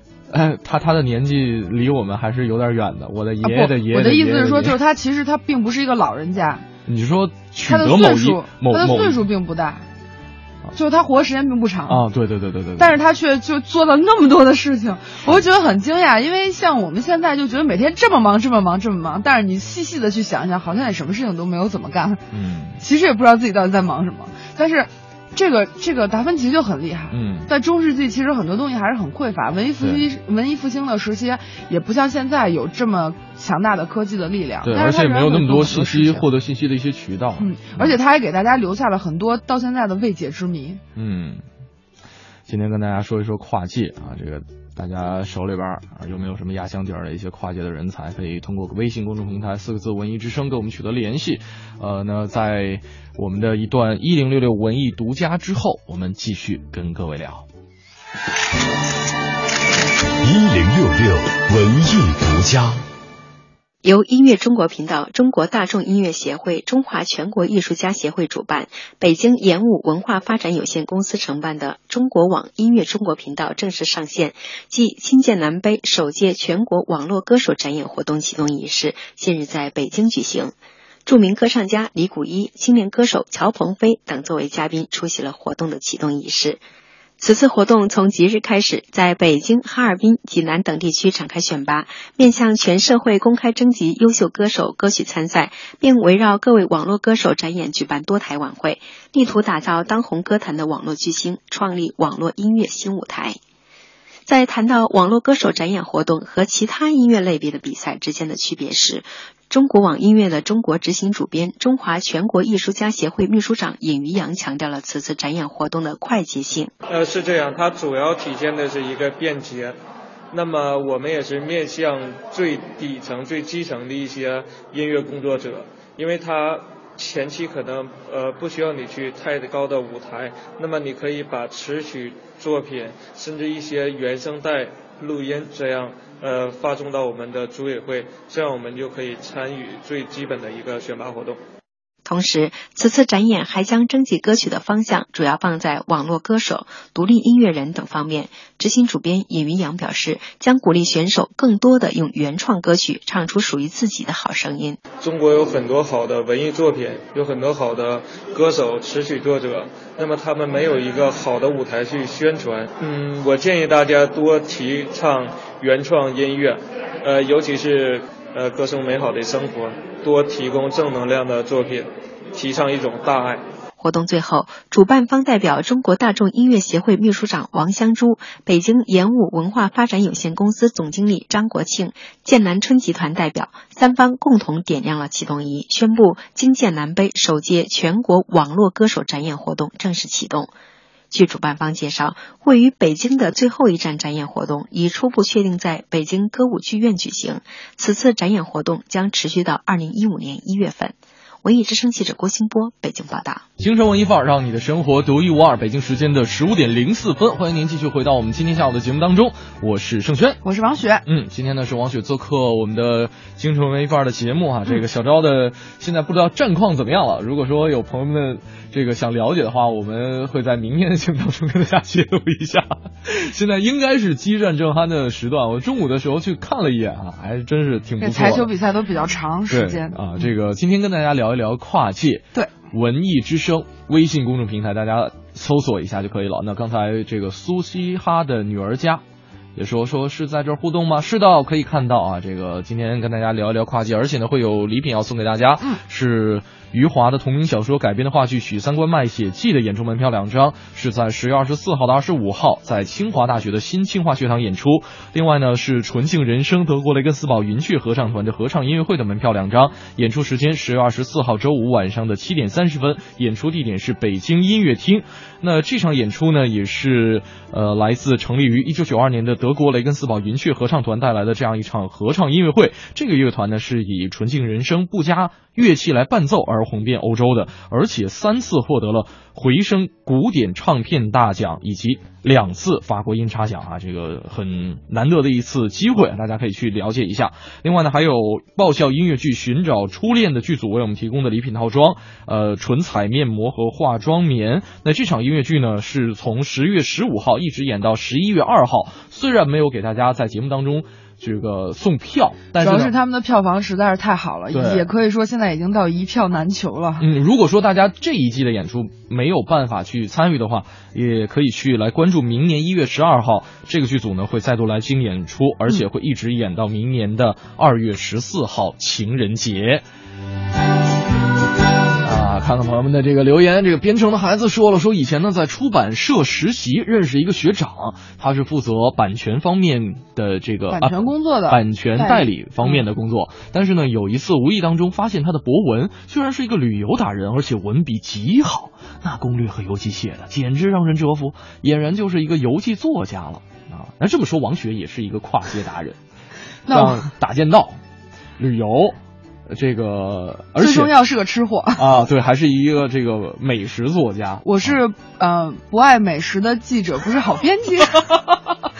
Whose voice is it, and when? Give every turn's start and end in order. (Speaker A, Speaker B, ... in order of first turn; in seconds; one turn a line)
Speaker A: 0.3-4.8
Speaker B: 3.4-6.6
Speaker A: 6.8-9.2
Speaker B: 7.6-9.8
Speaker B: 10.7-12.0
Speaker A: 11.9-12.9
Speaker B: 12.8-22.2
Speaker A: 22.3-22.8
Speaker B: 22.8-36.2
Speaker A: 27.1-27.5
Speaker A: 29.8-30.0
Speaker A: 34.6-37.9
Speaker B: 37.4-40.8
Speaker A: 41.0-41.4
Speaker A: 42.5-57.5
Speaker C: 60.2-62.8
Speaker D: 63.8-80.5
Speaker D: 81.0-86.6
Speaker D: 87.2-103.4
Speaker D: 104.3-116.7
Speaker E: 116.9-119.8
Speaker E: 120.3-141.4
Speaker D: 142.0-154.8
Speaker E: 155.0-173.4
Speaker D: 173.8-190.5
Speaker D: 191.1-203.4
Speaker A: 203.6-210.4
Speaker B: 210.4-211.0
Speaker A: 211.0-228.5
Speaker B: 228.0-230.2
Speaker A: 229.5-239.0
Speaker A: 239.6-302.9
Speaker B: 302.5-307.1
Speaker A: 304.5-304.9
Speaker A: 307.0-319.8
Speaker A: 322.0-346.0
Speaker B: 330.7-332.8
Speaker B: 346.7-347.1
Speaker A: 346.7-347.8
Speaker A: 348.4-350.9
Speaker B: 350.6-351.8
Speaker A: 351.8-354.8
Speaker B: 354.4-358.1
Speaker A: 358.1-358.5